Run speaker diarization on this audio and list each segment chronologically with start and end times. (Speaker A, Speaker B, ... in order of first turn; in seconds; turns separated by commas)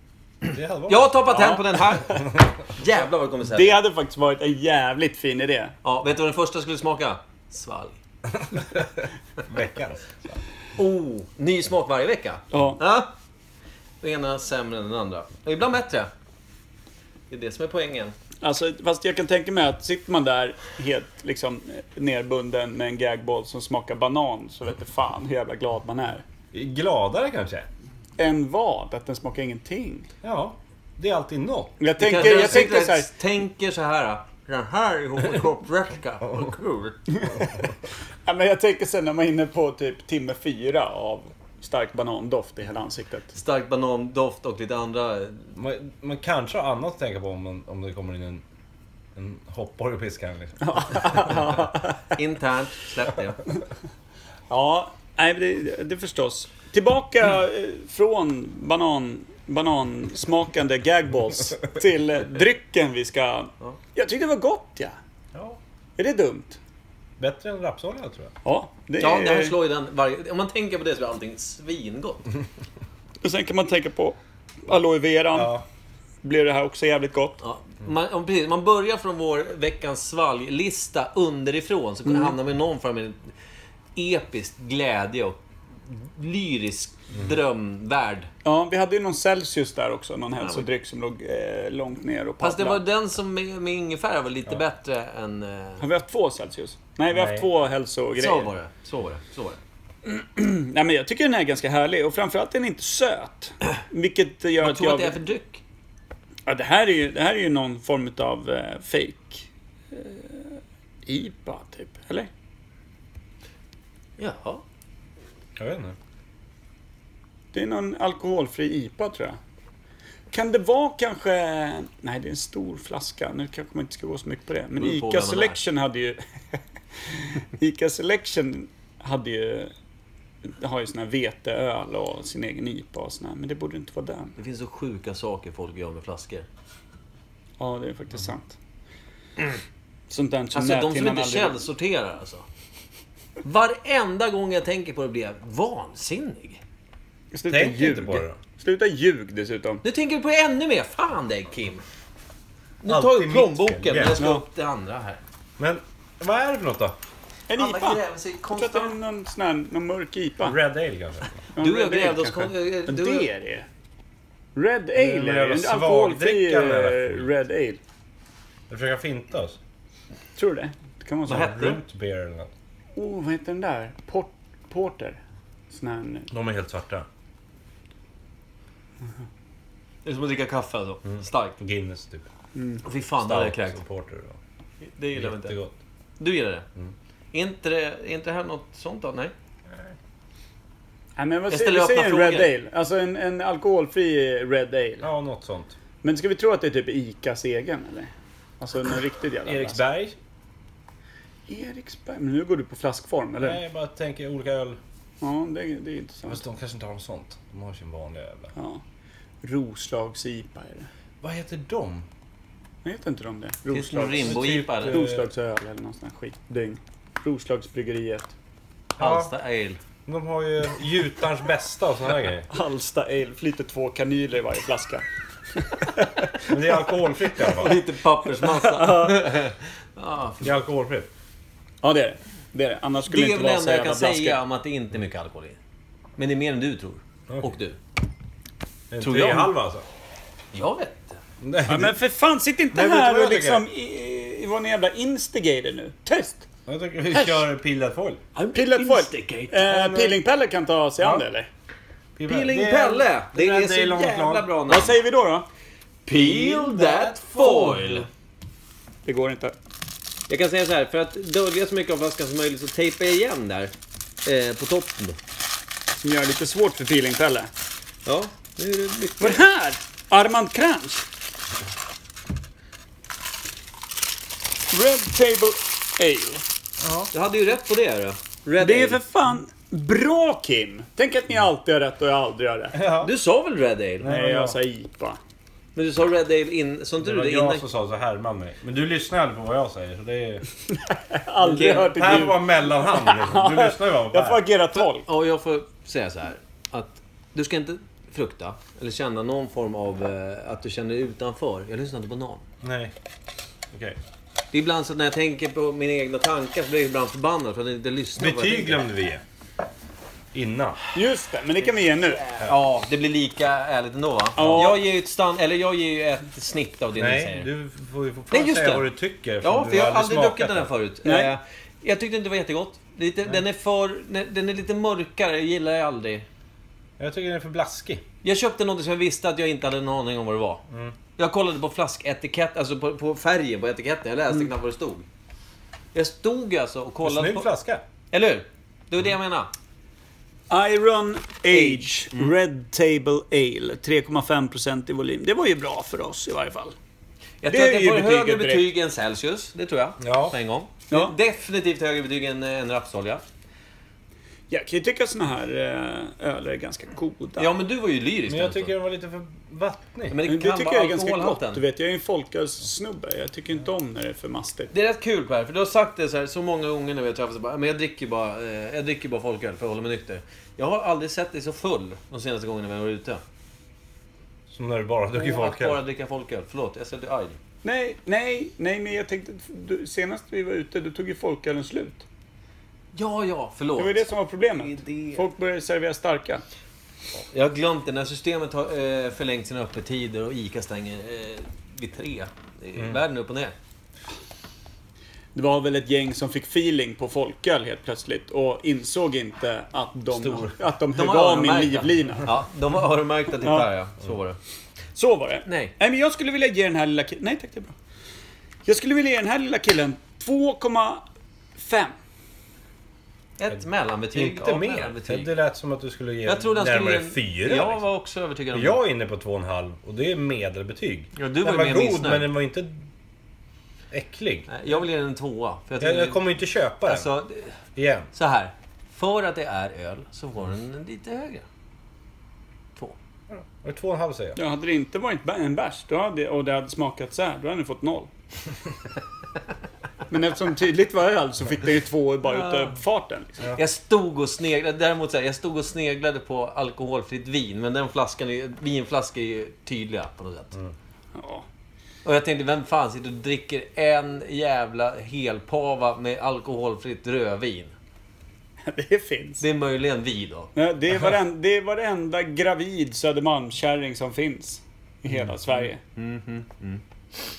Speaker A: 0.5-1.2, Speaker B: 0.9-3.8, Speaker C: 1.3-1.6, Speaker C: 3.5-5.7, Speaker B: 5.8-8.0, Speaker A: 8.3-10.4, Speaker B: 10.8-13.1, Speaker C: 12.5-12.8, Speaker B: 14.0-16.1, Speaker B: 17.3-18.1, Speaker C: 18.4-26.2, Speaker A: 26.5-27.7, Speaker C: 28.2-30.1, Speaker A: 30.2-32.4, Speaker C: 31.8-33.1, Speaker B: 32.0-37.0, Speaker C: 37.1-37.6, Speaker C: 38.2-43.3, Speaker B: 43.3-45.5, Speaker A: 45.5-48.4, Speaker A: 49.1-51.3, Speaker C: 50.6-52.0, Speaker B: 52.1-53.4, Speaker C: 54.5-65.0, Speaker A: 65.3-65.6, Speaker C: 66.0-66.6, Speaker A: 67.2-68.3, Speaker C: 68.4-69.6, Speaker B: 69.0-72.3, Speaker C: 73.2-75.6, Speaker A: 75.3-75.6, Speaker C: 76.2-77.4, Speaker B: 77.4-83.3, Speaker C: 82.0-82.3, Speaker B: 83.9-88.3, Speaker C: 88.4-92.8, Speaker B: 90.4-90.6, Speaker B: 92.4-95.8, Speaker C: 95.8-98.5, Speaker A: 97.1-97.5, Speaker B: 98.2-99.6, Speaker C: 100.0-105.2, Speaker B: 104.6-105.6, Speaker C: 106.5-112.3, Speaker B: 114.2-114.6, Speaker A: 115.6-116.0, Speaker C: 117.5-119.4, Speaker C: 120.3-126.2, Speaker B: 124.8-125.6, Speaker C: 127.1-129.7, Speaker C: 130.4-134.3, Speaker B: 134.4-136.4, Speaker C: 137.6-138.6, Speaker C: 140.1-141.7, Speaker B: 140.5-142.4, Speaker B: 143.4-146.6, Speaker C: 147.3-149.8, Speaker A: 147.5-148.4, Speaker B: 149.8-151.8, Speaker B: 152.8-155.2, Speaker A: 152.8-154.2, Speaker C: 154.2-154.4, Speaker A: 155.6-157.0, Speaker C: 157.5-158.0, Speaker B: 157.6-158.9, Speaker C: 158.6-160.6, Speaker A: 160.4-161.4, Speaker C: 161.6-163.7, Speaker B: 161.6-163.3, Speaker C: 164.6-167.8, Speaker A: 164.9-167.3, Speaker A: 168.7-169.6, Speaker C: 170.3-171.6, Speaker B: 171.3-171.8, Speaker A: 171.3-172.5, Speaker C: 172.9-176.3, Speaker A: 176.3-177.1, Speaker B: 180.0-181.6, Speaker A: 181.1-182.2, Speaker C: 182.5-182.8, Speaker B: 182.8-183.8, Speaker A: 183.2-184.4, Speaker B: 184.8-185.6, Speaker A: 185.1-185.7, Speaker B: 186.2-186.7, Speaker B: 187.3-189.3, Speaker A: 189.7-189.9, Speaker C: 191.2-195.1, Speaker B: 191.5-192.5, Speaker A: 195.0-195.8, Speaker C: 196.0-199.8, Speaker A: 199.4-200.2, Speaker C: 201.5-203.6, Speaker A: 203.4-204.8, Speaker C: 205.2-206.4, Speaker A: 206.2-208.5, Speaker C: 208.5-208.8, Speaker C: 209.4-210.9, Speaker A: 211.2-212.1, Speaker C: 212.8-218.3, Speaker B: 213.7-215.0, Speaker A: 214.2-215.2, Speaker A: 219.0-219.3, Speaker B: 219.0-219.8, Speaker A: 220.1-222.5, Speaker C: 222.5-225.0, Speaker C: 225.6-226.5, Speaker A: 226.5-227.8, Speaker B: 227.4-230.6, Speaker C: 228.4-229.3, Speaker A: 230.4-231.1, Speaker C: 231.8-234.4, Speaker B: 233.1-235.6, Speaker B: 236.2-237.8, Speaker A: 237.3-237.5, Speaker A: 238.9-239.8, Speaker B: 239.0-239.5, Speaker B: 240.5-241.2, Speaker A: 241.4-242.0, Speaker C: 241.7-246.4, Speaker A: 242.7-243.7, Speaker A: 246.7-248.2, Speaker B: 248.3-249.7, Speaker C: 248.5-251.5, Speaker A: 249.7-250.2, Speaker A: 251.0-251.2, Speaker A: 252.2-254.5, Speaker B: 252.2-255.0, Speaker C: 254.7-255.4, Speaker B: 256.1-258.1, Speaker A: 256.1-258.1, Speaker C: 259.0-259.5, Speaker B: 260.3-263.7, Speaker B: 264.2-265.2, Speaker C: 265.9-267.5, Speaker B: 268.0-269.4, Speaker C: 269.2-271.1, Speaker C: 274.7-276.4, Speaker A: 276.8-277.1, Speaker B: 277.1-279.0, Speaker C: 278.6-282.8, Speaker A: 282.7-283.1, Speaker B: 283.0-284.1, Speaker A: 284.0-284.6, Speaker C: 284.0-285.2, Speaker B: 285.7-287.6, Speaker A: 287.0-290.4, Speaker C: 290.9-295.1, Speaker B: 291.4-292.2, Speaker A: 291.7-294.4, Speaker B: 295.0-302.4, Speaker A: 302.6-302.9, Speaker A: 303.7-304.0, Speaker B: 304.5-308.8, Speaker A: 308.2-309.2, Speaker A: 310.3-310.8, Speaker C: 310.9-312.2, Speaker B: 312.0-317.5, Speaker C: 314.4-314.8, Speaker A: 314.4-314.7, Speaker A: 317.0-320.7, Speaker B: 318.3-318.9, Speaker B: 319.4-326.2, Speaker C: 321.0-321.3, Speaker A: 327.0-328.0, Speaker B: 328.2-330.6, Speaker A: 330.7-330.9, Speaker B: 331.2-335.1, Speaker B: 335.9-337.5, Speaker A: 337.0-337.8, Speaker B: 338.1-339.5, Speaker C: 340.5-346.7, Speaker B: 341.5-342.3, Speaker B: 347.4-353.2, Speaker C: 347.5-348.6, Speaker A: 350.0-350.3, Speaker C: 354.5-357.5, Speaker B: 357.4-358.7, Speaker A: 358.3-360.2, Speaker B: 360.1-361.6, Speaker C: 360.2-364.7, Speaker B: 364.7-373.2, Speaker A: 374.5-375.8, Speaker B: 375.1-377.4, Speaker C: 377.6-382.0, Speaker B: 382.9-385.2, Speaker C: 383.8-386.4, Speaker B: 387.3-393.5, Speaker C: 395.3-402.3, Speaker A: 400.1-400.5, Speaker B: 400.9-404.4, Speaker C: 404.9-407.7, Speaker B: 405.4-405.7, Speaker C: 408.6-411.0, Speaker C: 411.6-411.9, Speaker B: 413.4-415.3, Speaker A: 414.1-417.8, Speaker B: 416.2-418.8, Speaker A: 418.5-422.8, Speaker B: 421.1-422.3, Speaker A: 423.9-424.5, Speaker B: 424.5-426.2, Speaker A: 425.8-427.1, Speaker B: 426.8-427.5, Speaker A: 427.8-428.1, Speaker B: 428.1-431.4, Speaker A: 433.3-434.4, Speaker C: 434.4-438.1, Speaker C: 440.1-443.4, Speaker B: 442.3-442.7, Speaker B: 443.6-450.5, Speaker C: 451.1-451.4, Speaker B: 452.0-457.7, Speaker C: 458.6-459.4, Speaker B: 459.4-460.5, Speaker C: 460.6-465.8, Speaker B: 465.9-466.8